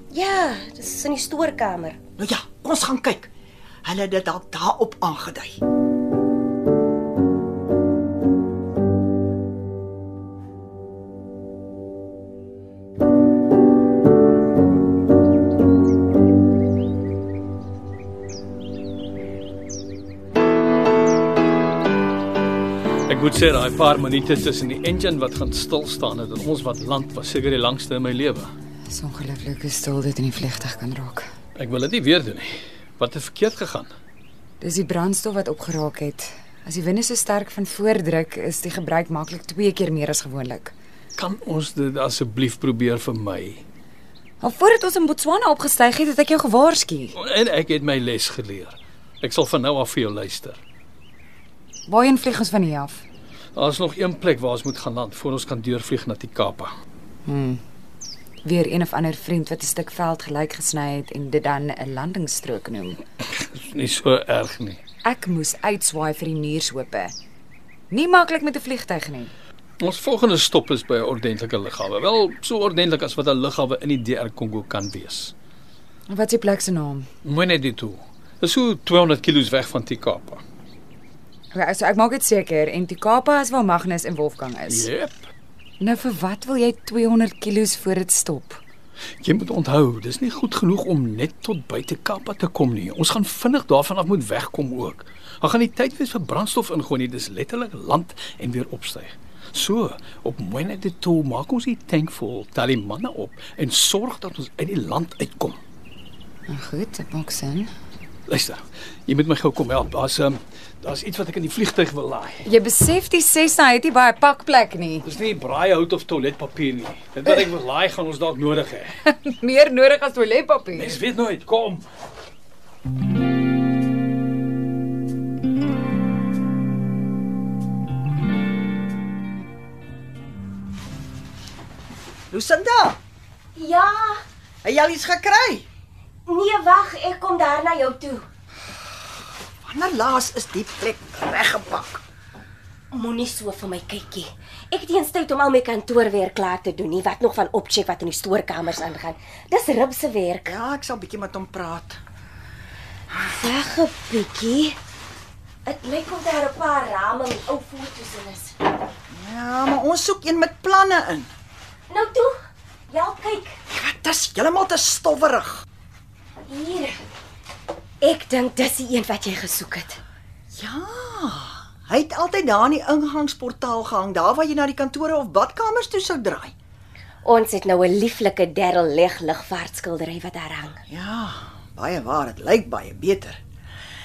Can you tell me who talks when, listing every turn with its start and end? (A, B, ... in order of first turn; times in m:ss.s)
0:00.1-0:02.0 A
0:02.2-0:03.3 B
0:03.8-0:05.6 B
0:23.1-0:28.5 C
0:28.9-0:31.3 D
0:31.6-0:33.9 C
0:34.6-0:40.7 D
0:41.1-0:43.6 C
0:44.4-0:47.1 D
0:47.1-0:50.6 C
0:51.9-0:53.0 D
0:53.5-0:56.7 C
0:57.2-0:57.6 D
0:58.4-1:03.0 D
1:03.2-1:04.8 C
1:05.0-1:07.1 D
1:07.9-1:09.3 D
1:09.8-1:15.3 C
1:16.1-1:17.1 D
1:17.2-1:20.4 C
1:21.5-1:24.9 D
1:24.7-1:25.3 C
1:25.8-1:28.6 D
1:29.2-1:45.6 C
1:46.5-1:47.7 D
1:48.3-1:52.4 C
1:52.4-1:55.0 D
1:55.0-1:59.0 C
1:59.0-2:01.0 D
2:00.7-2:01.9 C
2:12.3-2:13.0 B
2:13.6-2:14.2 A
2:14.6-2:15.7 B
2:16.3-2:18.3 A
2:19.6-2:22.0 B
2:22.9-2:30.6 A
2:30.5-2:32.0 B
2:33.2-2:34.8 A
2:35.6-2:38.6 A
2:39.1-2:41.3 B
2:41.9-2:43.6 A
2:43.7-2:45.6 B
2:46.4-2:47.0 A
2:48.0-2:50.0 A
2:50.5-2:56.5 B
2:57.2-3:00.8 A
3:00.9-3:03.4 B